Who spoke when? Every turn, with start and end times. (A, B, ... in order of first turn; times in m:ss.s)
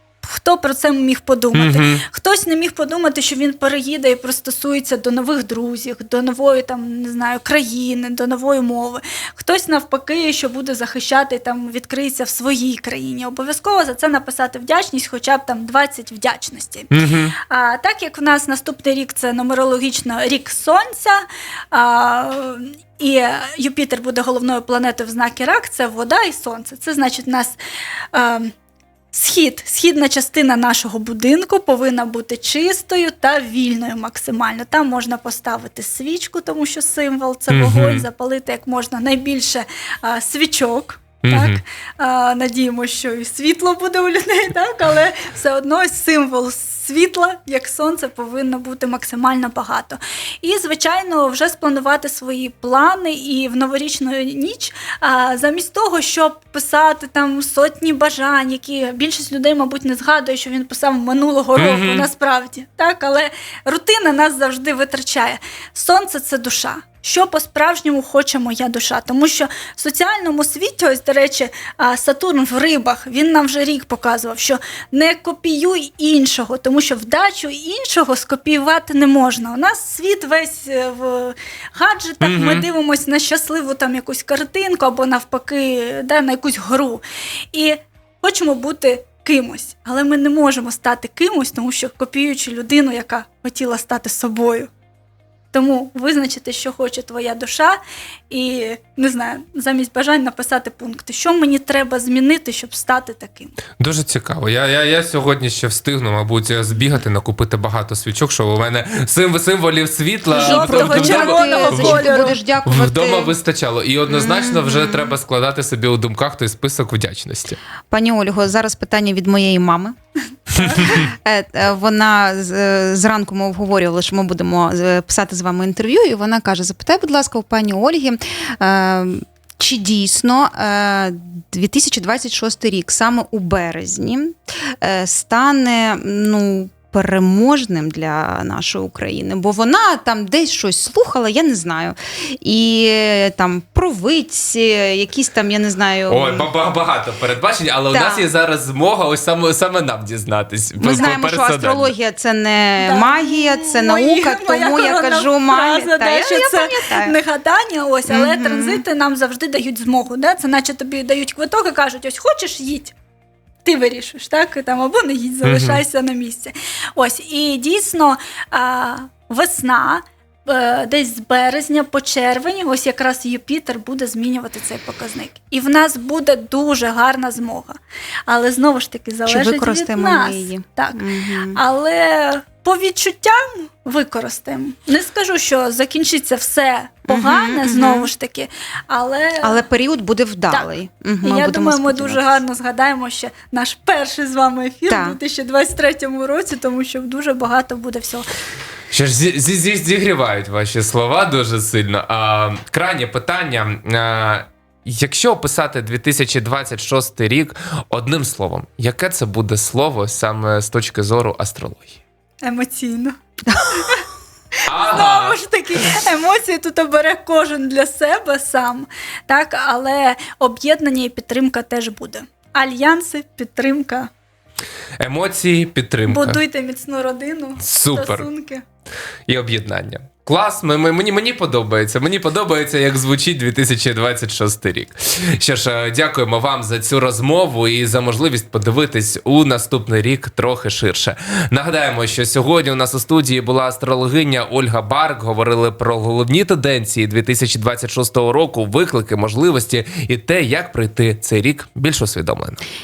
0:00.2-0:16.9 A
0:01.5-0:02.0 B
0:16.9-0:17.3 B
0:17.4-0:27.6 A
0:28.1-0:28.5 A
0:29.1-1:34.7 A
0:37.5-0:38.0 B
0:41.2-0:41.6 B
1:01.6-1:02.1 B
1:22.2-1:22.6 B
1:35.5-1:37.8 A
1:38.3-1:43.6 A
1:43.8-1:52.1 B
1:50.3-1:52.4 A
1:50.4-1:53.3 C
1:52.6-1:57.6 B
1:54.1-1:55.1 C
1:57.9-2:00.0 C
2:00.5-2:01.0 A
2:00.6-2:26.5 C
2:26.1-2:31.9 B
2:27.9-2:28.3 C
2:30.8-2:37.1 C
2:32.8-2:42.9 A
2:38.1-2:38.8 C
2:43.6-3:09.6 A
2:45.4-2:45.8 B
2:59.2-3:01.6 C
3:07.1-3:08.1 C
3:09.4-3:12.3 C
3:11.2-3:18.3 A
3:14.9-3:15.2 C
3:18.9-3:31.9 B
3:32.4-3:34.0 A
3:34.6-3:35.4 B
3:34.7-3:44.1 A
3:45.0-3:46.4 B
3:46.0-3:48.6 A
3:47.6-3:48.3 B
3:49.3-4:12.6 B